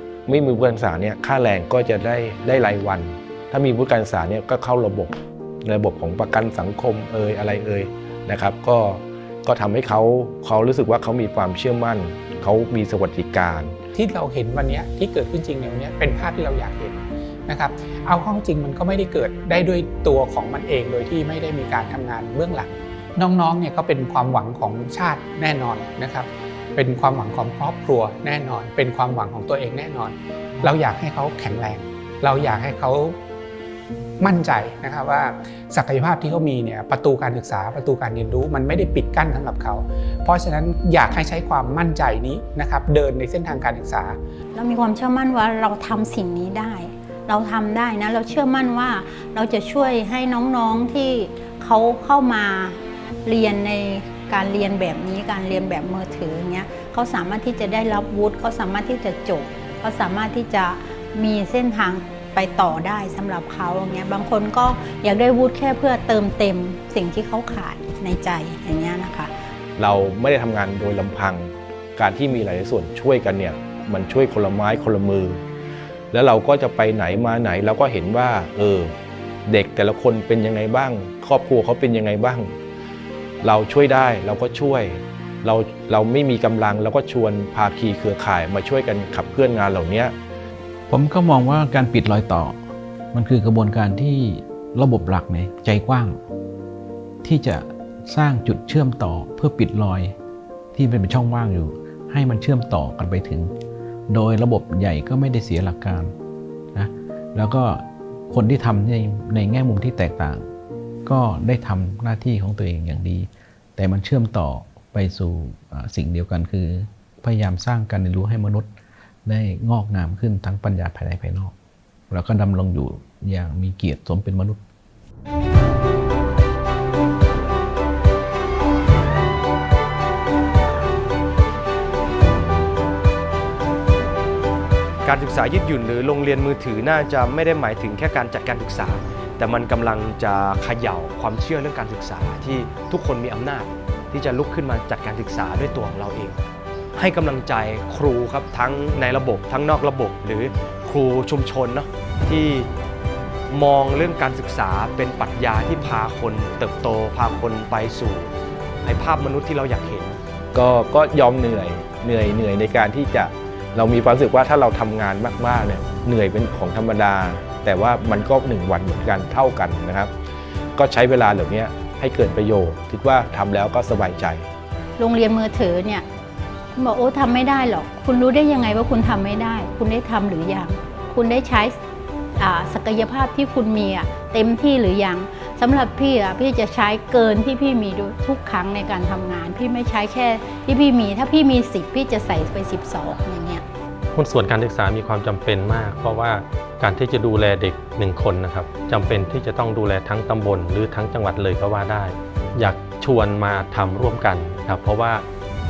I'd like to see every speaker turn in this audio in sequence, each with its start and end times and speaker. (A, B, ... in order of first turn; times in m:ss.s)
0:00.3-0:13.8 A
0:14.0-0:33.2 B
0:34.2-0:44.2 B
0:44.5-1:09.3 C
1:09.8-1:15.4 A
1:16.1-1:18.9 A
1:19.5-1:22.6 A
1:23.4-1:30.2 A
1:30.9-1:32.6 D
1:33.1-1:36.2 D
1:37.2-1:40.2 D
1:40.7-1:43.5 D
1:44.1-1:46.1 D
1:46.7-1:50.5 D
1:51.1-1:58.7 D
1:59.2-2:01.5 D
2:02.1-2:04.6 D
2:15.0-2:32.7 E
2:33.5-2:38.3 E
2:38.8-2:40.2 E
2:40.5-2:50.1 A
2:50.8-2:54.5 A
2:55.0-2:56.0 C
2:56.8-3:01.8 C
3:02.4-3:13.6 C
3:14.1-3:25.2 F